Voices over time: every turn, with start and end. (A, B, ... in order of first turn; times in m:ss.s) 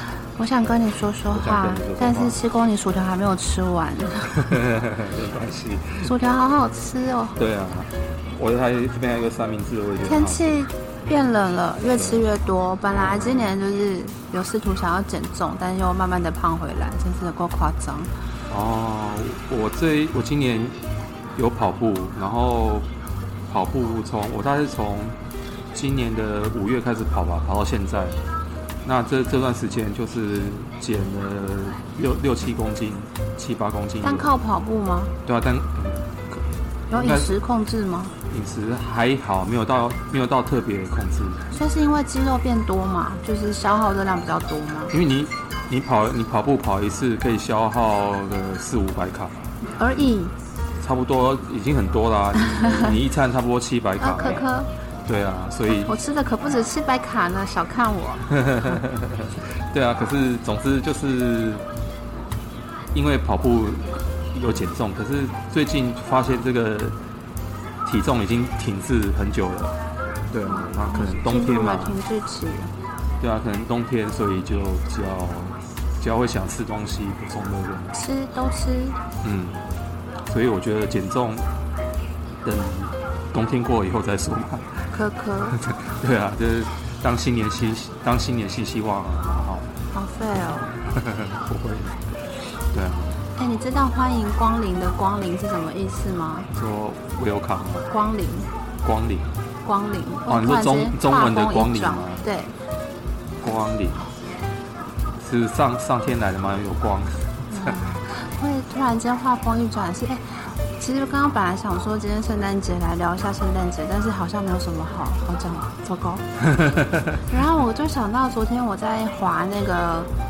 0:00.4-0:04.5 A
0:01.3-0:02.4 B
0:04.3-0:06.1 B
0:06.0-0:07.4 A
0:07.4-0:10.6 B
0:10.0-0:18.1 A
0:12.9-0:13.5 B
0:18.5-0:20.8 B
0:21.4-0:22.9 B
0:23.5-0:25.2 B
0:25.7-0:28.2 B
0:28.8-0:34.4 B
0:34.0-0:35.1 A
0:35.2-0:36.4 B
0:36.9-0:38.1 A
0:36.9-0:37.4 B
0:38.3-0:41.5 B
0:41.5-0:44.9 A
0:44.9-0:49.4 B
0:49.8-0:50.3 A
0:50.8-0:54.4 B
0:52.4-0:53.0 A
0:54.0-0:54.7 A
0:55.0-0:56.0 B
0:55.7-0:58.3 A
0:58.3-1:01.6 B
1:02.9-1:06.9 B
1:07.8-1:09.7 B
1:10.3-1:12.0 B
1:10.4-1:12.7 A
1:13.2-1:18.0 B
1:17.9-1:19.0 A
1:19.2-1:19.6 B
1:20.3-1:21.4 B
1:22.4-1:24.8 B
1:24.9-1:25.6 A
1:25.5-1:29.6 B
1:29.9-1:30.7 A
1:30.9-1:32.1 B
1:32.7-1:33.2 B
1:33.4-1:36.5 A
1:36.5-1:37.9 B
1:37.9-1:38.5 A
1:38.8-1:39.3 B
1:39.6-1:42.5 A
1:40.3-1:42.2 B
1:43.4-1:44.1 B
1:45.2-1:47.8 B
1:47.5-1:56.2 A
1:56.4-1:57.2 B
1:57.3-2:00.1 A